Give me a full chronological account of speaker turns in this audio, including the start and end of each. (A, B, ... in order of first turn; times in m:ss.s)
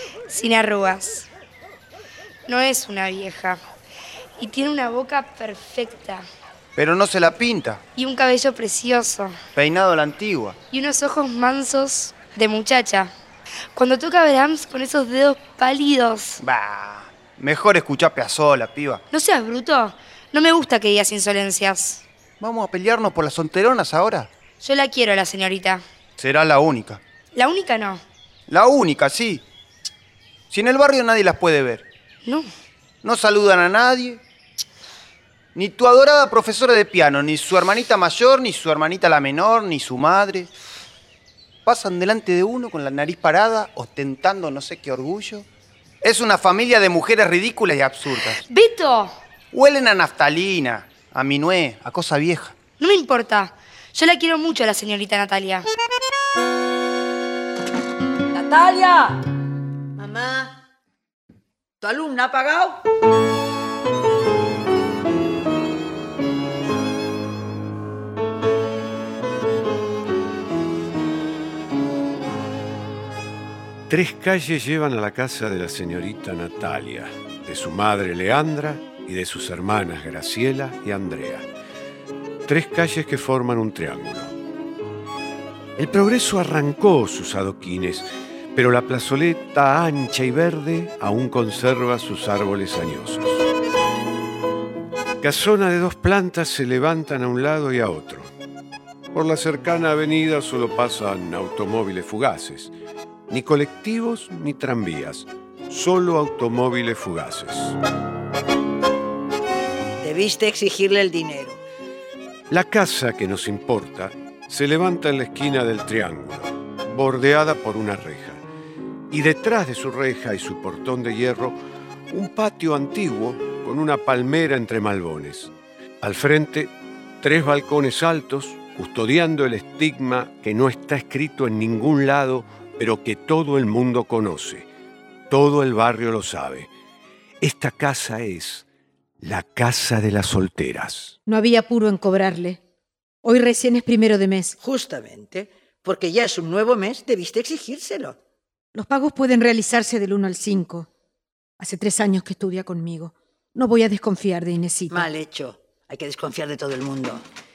0:00.3-0:01.3 A
0:02.5-0:03.6 A
0:04.4-0:06.2 A
0:06.8-0:07.8 B
0:08.0-0:09.4 A
0:09.5-0:10.6 B
0:10.7-0:13.1 A
0:13.7-0:16.4 A
0:16.4-0:19.0 B
0:19.1-0:22.0 A
0:22.4-0:24.3 B
0:24.6-0:25.8 A
0:26.2-0:27.0 B
0:27.3-0:28.0 A
0:28.5-0:29.4 B
0:30.5-0:31.8 B
0:33.0-0:34.2 B
0:35.5-0:40.5 B
0:41.6-0:45.5 B
0:46.0-0:48.4 B
0:48.4-0:49.2 A
0:49.5-0:52.6 B
0:52.8-0:55.7 A
0:58.3-0:59.2 C
1:00.0-1:00.6 C
1:01.8-1:02.8 C
1:13.9-1:21.5 D
1:22.4-1:24.3 D
1:25.8-1:33.5 D
1:35.2-1:38.3 D
1:39.1-1:42.7 D
1:43.3-1:47.8 D
1:50.0-1:51.6 C
1:52.5-1:58.4 D
1:59.1-2:01.6 D
2:02.1-2:14.7 D
2:15.3-2:16.7 D
2:17.4-2:18.6 D
2:19.2-2:21.2 D
2:21.2-2:22.6 E
2:23.2-2:24.6 E
2:24.6-2:28.2 C
2:28.7-2:30.9 E
2:31.6-2:35.1 E
2:34.9-2:37.2 C